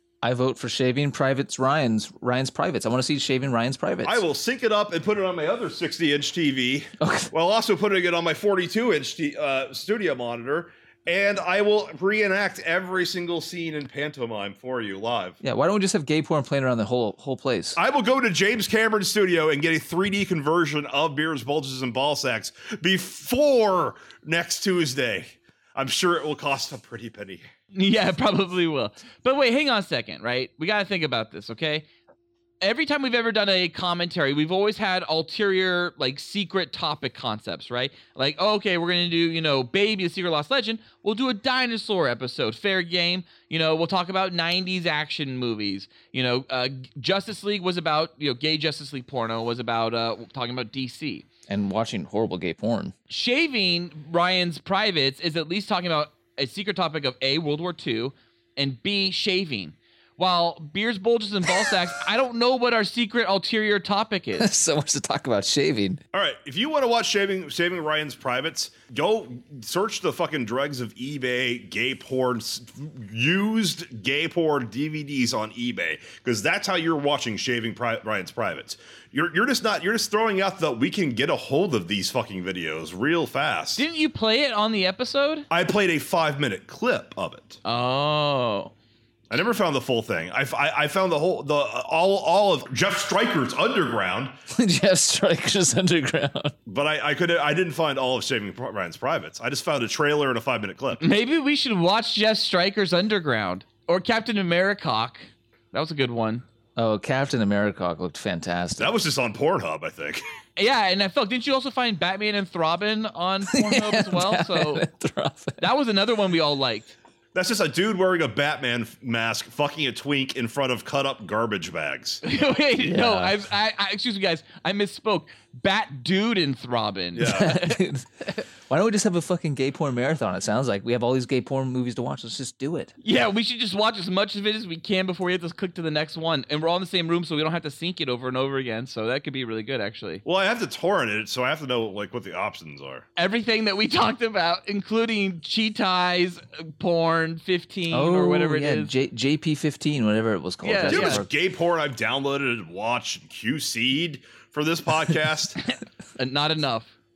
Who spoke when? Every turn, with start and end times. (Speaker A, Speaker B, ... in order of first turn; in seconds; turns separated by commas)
Speaker A: 0.2-4.2, Speaker B: 4.0-15.4, Speaker A: 7.0-7.3, Speaker A: 15.4-17.8, Speaker B: 17.8-27.4, Speaker C: 27.7-31.9, Speaker C: 32.6-51.3, Speaker A: 51.5-53.0, Speaker C: 53.1-64.5, Speaker A: 64.4-66.0, Speaker B: 66.1-83.8, Speaker C: 83.8-85.5, Speaker B: 85.5-87.6, Speaker C: 87.7-88.7, Speaker B: 89.3-94.3, Speaker A: 94.5-96.5, Speaker B: 96.7-101.0, Speaker C: 101.0-106.5, Speaker A: 106.8-109.0, Speaker B: 108.8-110.2, Speaker C: 110.6-114.8, Speaker A: 113.5-115.7, Speaker C: 115.6-117.0, Speaker B: 117.3-122.2, Speaker C: 122.2-127.6, Speaker A: 122.8-123.4, Speaker B: 127.2-127.6, Speaker A: 127.2-132.9, Speaker C: 133.0-140.2, Speaker B: 140.2-143.1, Speaker C: 143.2-148.9, Speaker A: 147.9-151.3, Speaker C: 150.6-151.2, Speaker B: 150.9-155.6, Speaker C: 155.7-156.9